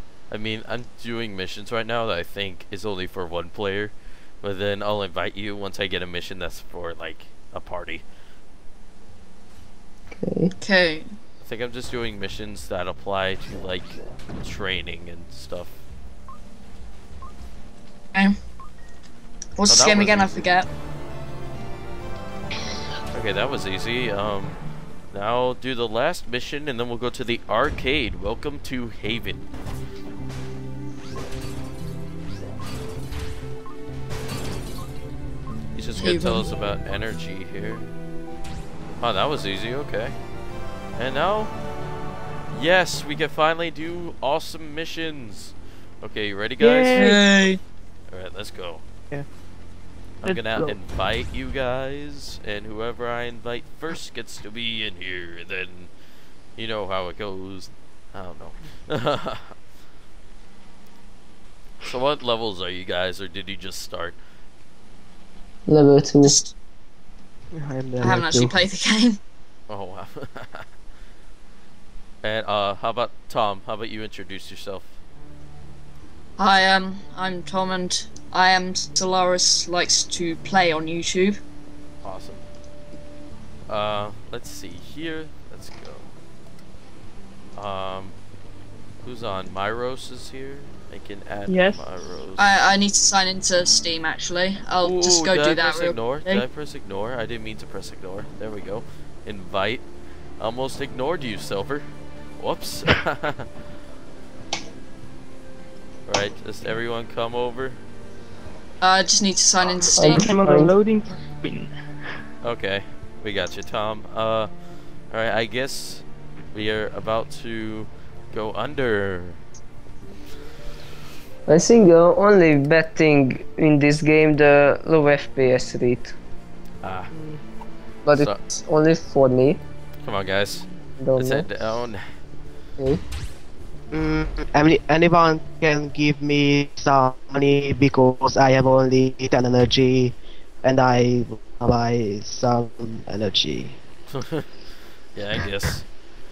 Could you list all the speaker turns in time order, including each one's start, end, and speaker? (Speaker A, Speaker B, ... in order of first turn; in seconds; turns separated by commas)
Speaker A: 0.3-8.0, Speaker B: 10.2-10.5, Speaker C: 10.6-11.1, Speaker A: 11.4-15.8, Speaker C: 19.6-20.7, Speaker A: 19.7-20.5, Speaker A: 23.1-24.6, Speaker A: 25.1-29.4, Speaker A: 35.7-37.9, Speaker C: 36.0-36.5, Speaker A: 39.0-40.2, Speaker A: 41.0-41.5, Speaker A: 42.5-47.1, Speaker D: 46.6-47.2, Speaker C: 47.0-47.6, Speaker A: 48.1-48.8, Speaker A: 50.2-55.9, Speaker D: 50.2-50.8, Speaker A: 56.5-59.5, Speaker A: 61.8-64.2, Speaker B: 65.7-66.4, Speaker C: 66.2-66.5, Speaker E: 67.5-68.5, Speaker C: 68.0-69.2, Speaker A: 69.7-70.7, Speaker A: 72.2-74.9, Speaker C: 76.4-81.4, Speaker A: 82.0-82.4, Speaker A: 83.7-86.1, Speaker A: 87.5-88.2, Speaker A: 89.0-92.5, Speaker D: 91.5-91.8, Speaker C: 92.4-96.4, Speaker A: 94.8-99.8, Speaker A: 100.4-101.8, Speaker A: 102.4-103.5, Speaker A: 106.0-107.8, Speaker C: 108.8-110.3, Speaker B: 109.9-110.7, Speaker D: 110.0-111.7, Speaker A: 112.4-114.5, Speaker A: 115.1-119.4, Speaker B: 121.5-126.1, Speaker A: 126.8-127.1, Speaker B: 128.1-129.6, Speaker A: 128.1-128.4, Speaker A: 130.0-132.0, Speaker B: 131.0-131.5, Speaker B: 132.8-133.0, Speaker E: 133.9-143.8, Speaker A: 144.1-144.5, Speaker A: 145.1-145.8